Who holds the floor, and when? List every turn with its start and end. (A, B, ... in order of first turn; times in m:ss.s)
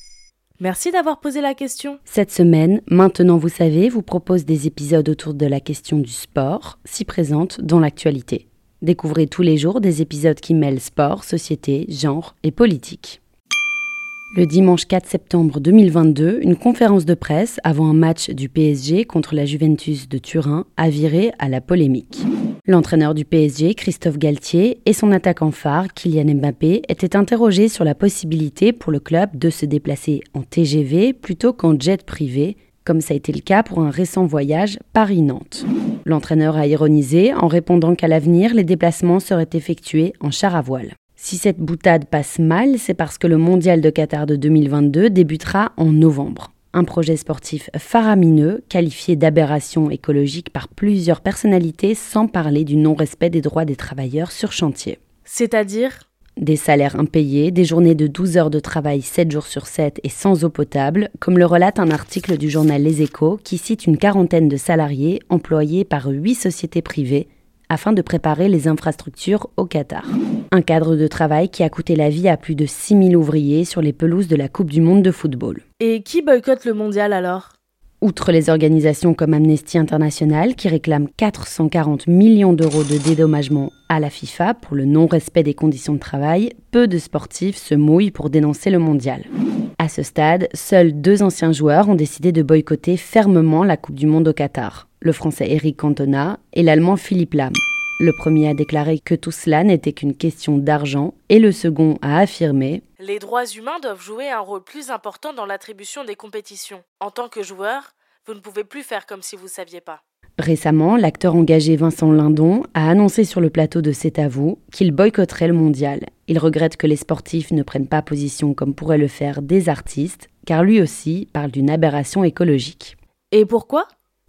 0:00.6-0:02.0 A
0:02.1-0:13.2 B
0:14.3-0:55.0 B
0:55.2-0:56.0 A
0:56.4-1:15.6 B
1:15.8-1:17.5 A
1:18.0-1:42.8 B
1:43.0-1:50.0 A
1:50.4-2:02.9 B
2:03.3-2:03.9 A